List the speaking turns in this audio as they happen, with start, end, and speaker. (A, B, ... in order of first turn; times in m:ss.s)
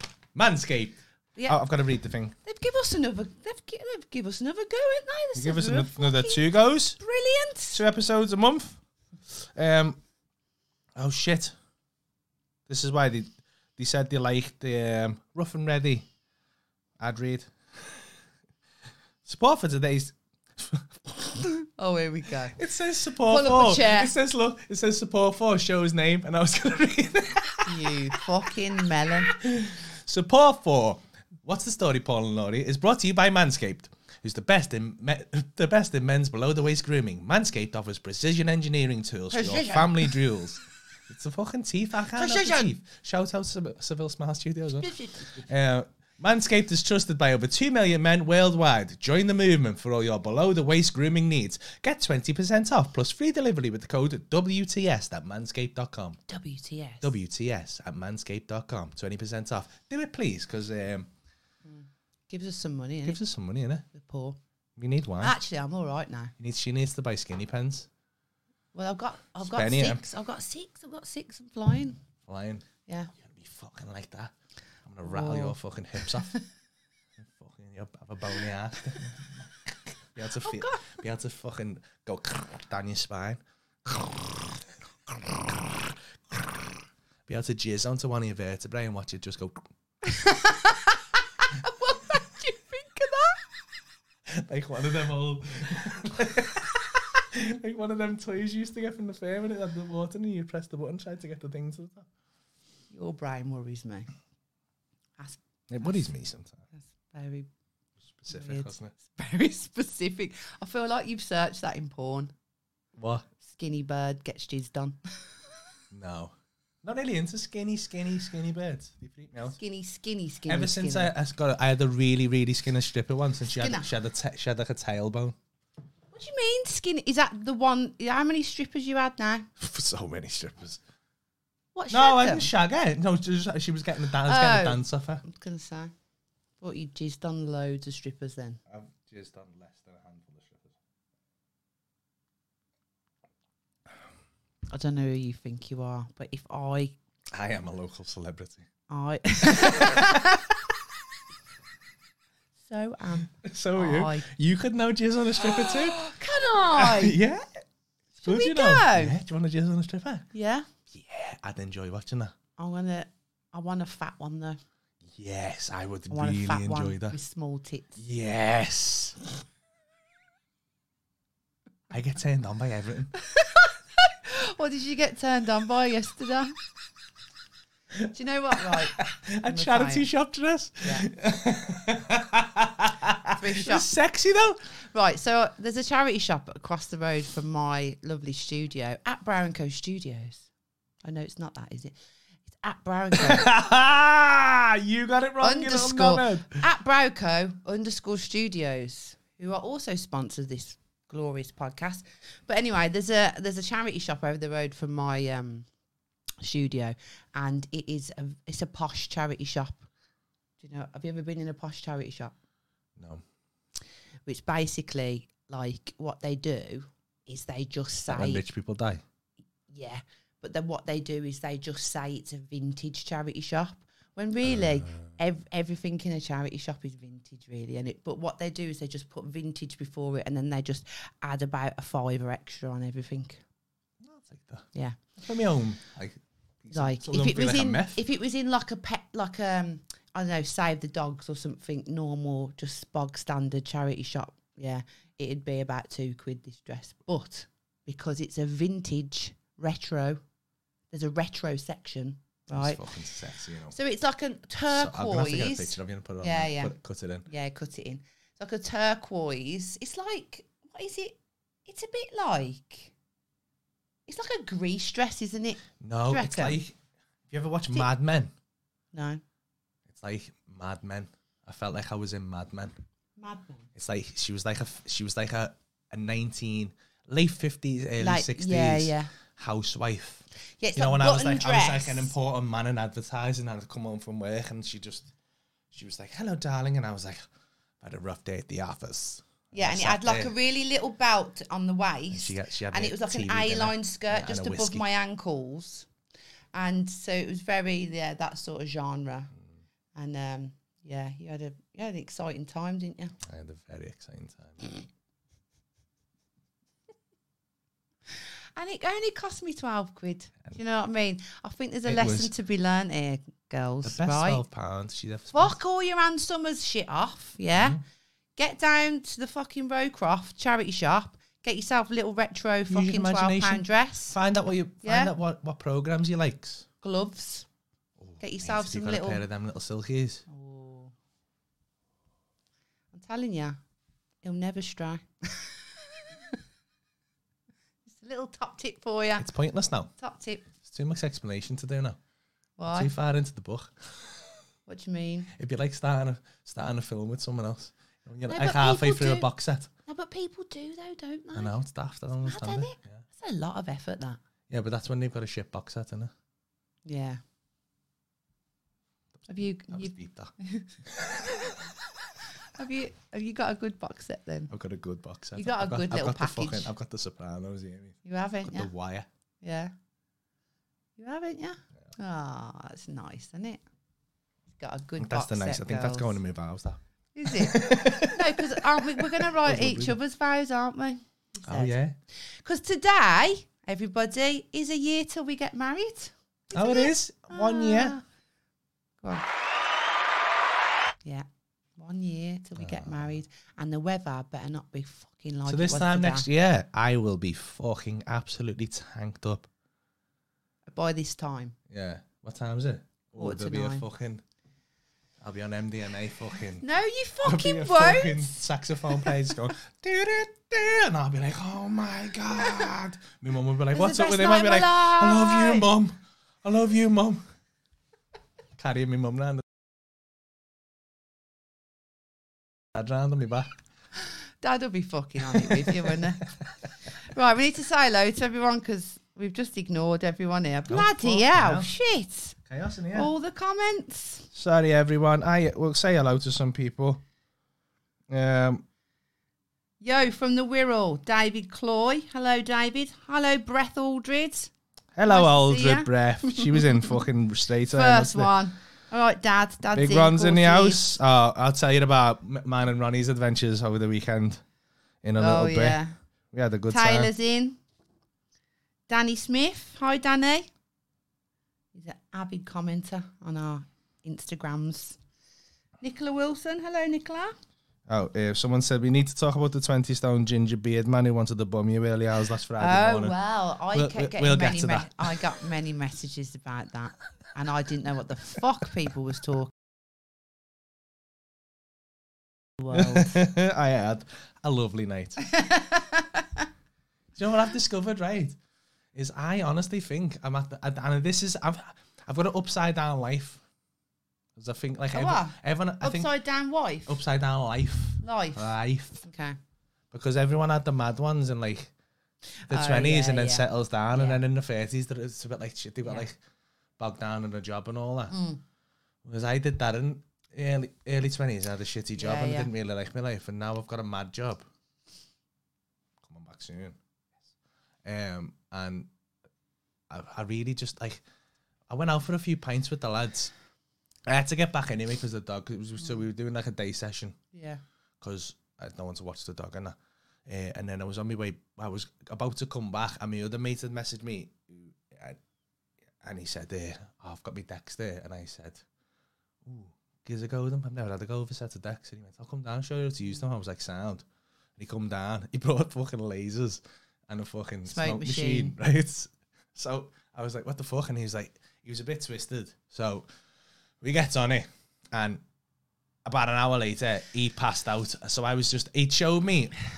0:00.4-0:02.4 A
0:02.4-0:07.8 B
0:05.4-0:07.0 A
0:07.7-0:08.8 A
0:09.3-0:10.0 A
0:11.0-0:11.6 A
0:12.7-0:16.1 A
0:17.0-0:18.1 A
0:19.2-0:21.5 A
0:21.8-0:22.6 B
0:22.5-0:28.2 A
0:23.2-0:24.2 B
0:27.6-0:29.4 B
0:29.2-0:56.2 A
0:39.3-0:40.2 B
0:42.2-0:42.7 B
0:44.8-0:45.4 B
0:56.3-0:57.1 B
0:57.0-1:01.1 A
1:01.6-1:03.2 B
1:03.0-1:03.9 A
1:03.9-1:04.4 B
1:04.8-1:05.4 A
1:05.2-1:06.3 B
1:06.4-1:07.9 A
1:08.7-1:12.0 B
1:09.4-1:10.0 A
1:12.3-1:12.6 A
1:12.9-1:13.1 B
1:13.2-1:14.3 A
1:14.8-1:16.4 A
1:15.0-1:15.6 B
1:17.2-1:19.5 A
1:20.1-1:29.7 A
1:20.4-1:20.8 B
1:30.0-1:33.4 B
1:34.3-1:42.1 A
1:42.9-1:44.1 B
1:45.2-1:45.9 B
1:45.7-1:46.6 A
1:46.7-1:47.5 B
1:48.2-1:48.9 A
1:48.3-1:52.3 B
1:53.0-1:53.3 A
1:53.4-1:55.3 B
1:55.9-1:59.6 A
1:59.5-2:01.1 B
2:00.5-2:05.4 A
2:03.6-2:03.9 B
2:06.1-2:09.5 B
2:09.6-2:10.8 A
2:11.8-2:12.5 B
2:11.9-2:15.2 A
2:14.2-2:15.9 B
2:16.6-2:18.6 B
2:18.7-2:20.8 A
2:24.7-2:27.0 B
2:27.3-2:28.7 A
2:28.9-2:30.5 B
2:29.5-2:30.2 A
2:32.6-2:34.3 B
2:33.3-2:36.1 A
2:35.4-2:37.2 B
2:36.7-2:37.6 A
2:38.2-2:39.2 B
2:38.2-2:40.3 A
2:40.3-2:40.7 B
2:40.9-2:42.4 A
2:42.6-2:44.6 B
2:45.1-2:47.2 A
2:46.1-2:48.0 B
2:48.0-2:49.2 A
2:51.9-2:53.1 A
2:53.2-2:56.6 B
2:58.1-3:00.1 B
2:58.6-3:04.6 A
3:00.8-3:01.1 B
3:03.3-3:03.9 B
3:04.9-3:10.5 B
3:11.0-3:12.0 B
3:12.5-3:13.5 B
3:13.1-3:16.6 A
3:15.4-3:25.7 B
3:26.4-3:29.9 B
3:30.6-3:32.4 B
3:33.0-3:33.2 A
3:34.3-3:38.4 B
3:38.1-3:39.0 A
3:39.7-3:53.4 B
3:44.4-3:45.2 A
3:54.0-3:58.0 A
3:54.7-3:55.0 B
3:56.7-4:10.2 B
4:10.9-4:12.8 B
4:12.5-4:13.8 A
4:13.7-4:16.7 B
4:14.7-4:17.3 A
4:17.3-4:22.9 B
4:24.1-4:26.6 B
4:25.8-4:26.8 A
4:27.3-4:28.3 A
4:28.9-4:29.2 B
4:29.9-4:32.7 A
4:33.2-4:33.7 B
4:33.8-4:40.2 A
4:38.0-4:39.1 B
4:40.6-4:42.1 B
4:40.8-4:45.1 A
4:45.7-4:47.2 A
4:47.8-4:50.3 A
4:49.5-4:55.9 B
4:52.1-4:54.8 A
4:56.5-4:59.3 B
5:00.0-5:03.2 B
5:03.2-5:04.8 A
5:08.6-5:14.4 B
5:11.9-5:12.3 A
5:13.8-5:15.6 A
5:15.3-5:17.8 B
5:17.5-5:17.8 A
5:18.4-5:24.2 B
5:22.7-5:26.7 A
5:24.8-5:25.1 B
5:26.8-5:27.5 B
5:28.0-5:30.3 A
5:28.2-5:29.2 B
5:30.3-5:30.9 B
5:32.9-5:33.6 B
5:34.2-5:36.4 B
5:37.9-5:39.3 B
5:39.2-5:39.9 A
5:40.0-5:40.5 B
5:40.6-5:42.0 A
5:42.6-5:42.9 B
5:42.7-5:44.4 A
5:44.7-5:45.3 B
5:45.3-5:49.7 A
5:48.3-5:49.3 B
5:49.9-5:51.6 B
5:51.4-5:53.0 A
5:52.2-5:54.2 B
5:54.5-5:56.1 A
5:56.9-5:57.2 B
5:59.3-6:00.7 B
5:59.7-6:00.3 A
6:00.8-6:01.6 A
6:02.5-6:04.5 B
6:04.5-6:09.1 A
6:05.4-6:06.7 B
6:08.0-6:08.7 B
6:09.4-6:09.7 B
6:11.0-6:13.6 B
6:14.6-6:16.2 B
6:15.0-6:20.0 A
6:17.2-6:21.8 B
6:21.4-6:22.0 A
6:22.3-6:28.0 B
6:26.5-6:28.0 A
6:31.8-6:36.3 B
6:32.6-6:33.2 A
6:35.5-6:39.5 A
6:40.7-6:41.6 B
6:41.7-6:44.2 A
6:43.2-6:43.9 B
6:45.2-6:46.7 A
6:46.6-6:49.1 B
6:47.2-6:57.2 A
6:53.7-6:55.7 B
6:58.6-6:59.4 A
7:02.7-7:03.5 A
7:04.4-7:06.3 B
7:05.3-7:06.0 A
7:07.0-7:12.4 B
7:10.7-7:11.7 A
7:12.5-7:13.1 A
7:12.9-7:14.3 B
7:14.3-7:17.0 A
7:18.1-7:18.6 A
7:19.8-7:24.5 B
7:25.0-7:28.3 A
7:25.0-7:27.0 B
7:27.7-7:30.9 B
7:29.7-7:34.4 A
7:35.0-7:35.8 A
7:35.2-7:36.0 B
7:36.3-7:37.1 A
7:36.7-7:37.6 B
7:38.9-7:40.5 B
7:41.7-7:45.0 B
7:45.8-7:47.3 B
7:47.9-7:53.2 A
7:52.6-7:59.5 B
7:53.7-7:55.3 A
8:02.6-8:03.1 B
8:02.7-8:05.2 A
8:05.2-8:06.5 B
8:07.2-8:08.4 A
8:08.9-8:13.4 A
8:14.4-8:16.1 A
8:14.9-8:17.0 B
8:16.9-8:19.0 A
8:18.0-8:18.5 B
8:19.0-8:19.4 B
8:19.9-8:21.7 A
8:22.4-8:24.2 B
8:22.5-8:26.2 A
8:26.8-8:28.2 A
8:28.1-8:28.4 B
8:29.0-8:34.5 A
8:32.0-8:32.5 B
8:36.0-8:36.8 A
8:37.8-8:38.9 A
8:39.9-8:41.0 A
8:41.7-8:43.3 A
8:44.1-8:47.2 A
8:47.3-8:47.6 B
8:48.0-8:55.2 A
8:56.0-8:58.6 A
8:59.4-9:04.0 A
9:04.6-9:13.1 A
9:07.7-9:08.6 B
9:13.8-9:15.2 A
9:16.0-9:19.6 A